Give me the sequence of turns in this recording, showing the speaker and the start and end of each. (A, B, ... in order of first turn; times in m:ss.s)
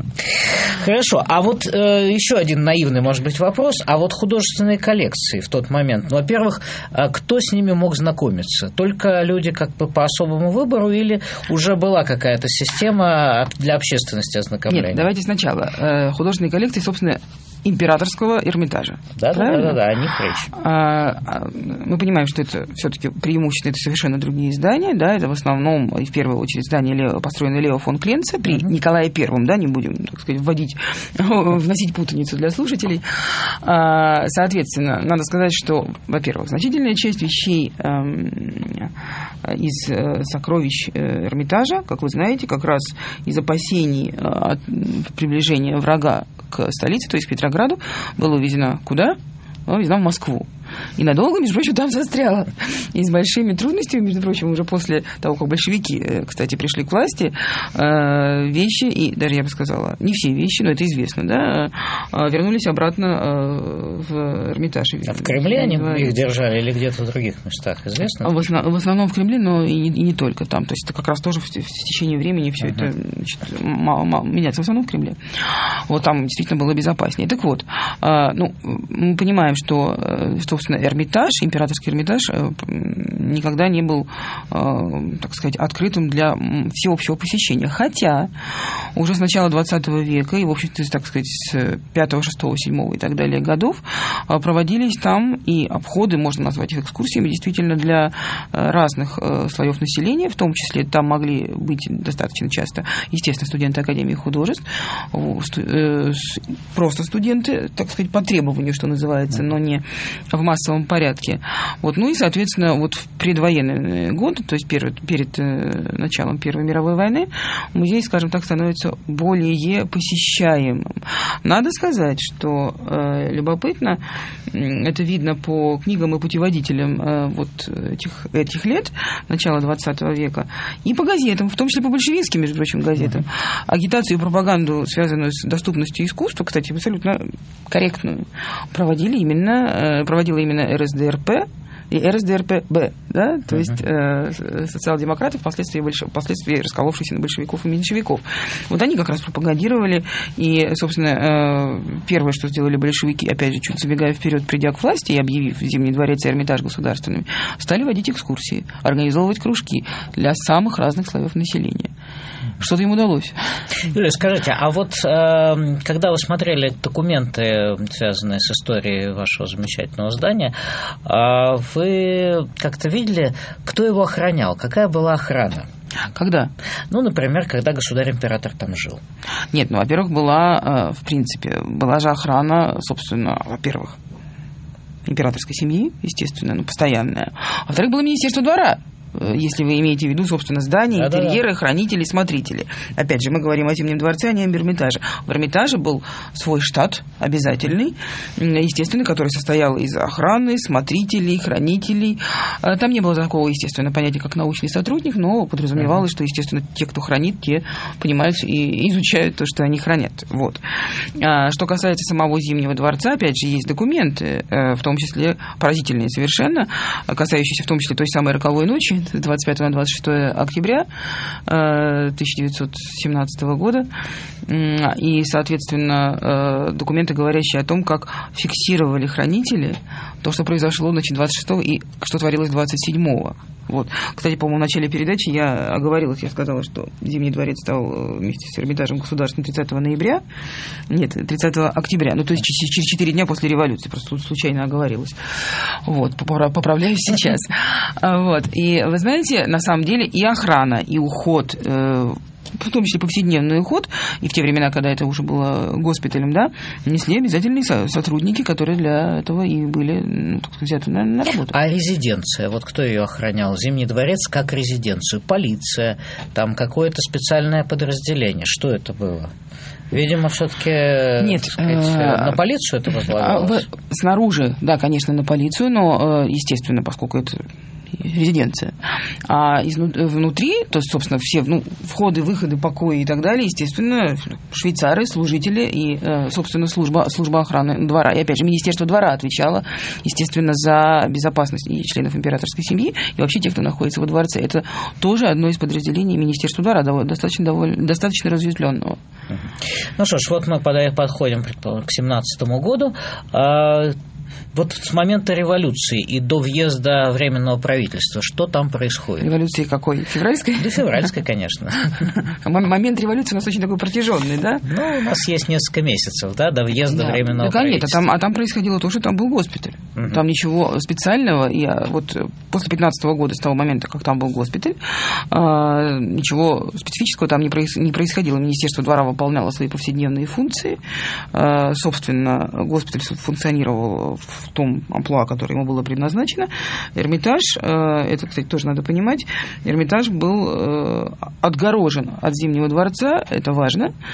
0:00.4-0:15.1 A
0:14.7-0:19.8 B
0:19.2-0:20.5 A
0:20.6-0:33.0 B
0:33.6-0:38.9 B
0:39.4-1:06.2 B
1:05.1-1:08.4 A
1:08.2-1:15.2 B
1:12.6-1:12.9 A
1:15.9-1:28.3 B
1:29.0-2:00.9 B
2:01.4-2:41.9 B
2:42.6-2:43.4 B
2:43.9-2:55.7 A
2:56.1-2:56.5 B
2:56.9-2:59.0 A
2:59.5-3:04.0 B
3:05.1-3:30.6 B
3:10.9-3:11.4 A
3:31.2-3:40.9 B
3:41.5-3:43.9 B
3:44.5-4:00.2 B
4:00.9-4:05.2 B
4:05.9-4:21.6 B
4:21.5-4:29.3 A
4:29.9-4:33.6 A
4:31.2-4:32.4 B
4:33.1-4:37.4 B
4:38.0-4:38.7 B
4:39.3-4:59.0 B
5:00.0-5:04.0 A
5:04.5-5:09.3 A
5:09.2-5:10.8 B
5:10.6-5:11.9 A
5:12.4-5:14.6 B
5:14.6-5:18.0 A
5:16.9-5:24.8 B
5:25.3-5:30.8 B
5:31.3-5:43.9 B